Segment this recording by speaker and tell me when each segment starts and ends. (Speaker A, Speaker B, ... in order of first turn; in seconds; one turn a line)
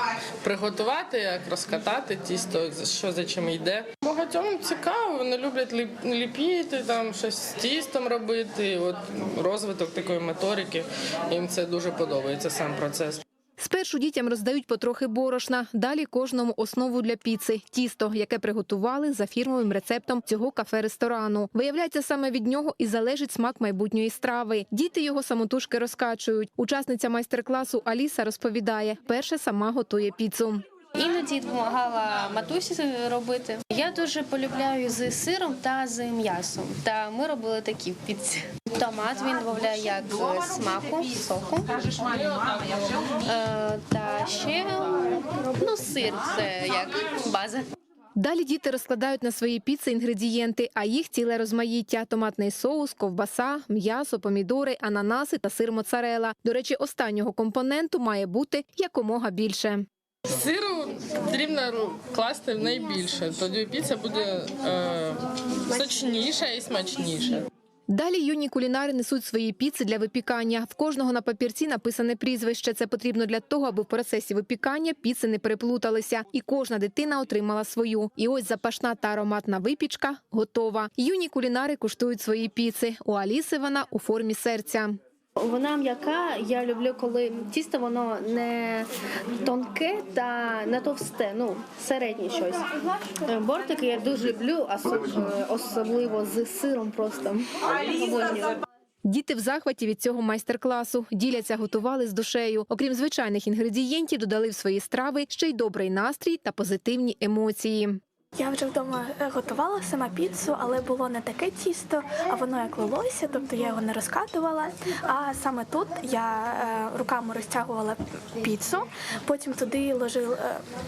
Speaker A: 0.4-13.2
Speaker B: 13.6-30.6
Speaker C: 30.9-42.3
Speaker C: 43.2-47.6
Speaker B: 48.1-59.9
Speaker A: 60.3-67.5
Speaker B: 67.9-85.0
Speaker C: 85.4-88.9
Speaker C: 89.4-98.5
Speaker B: 99.0-108.0
Speaker D: 108.4-120.6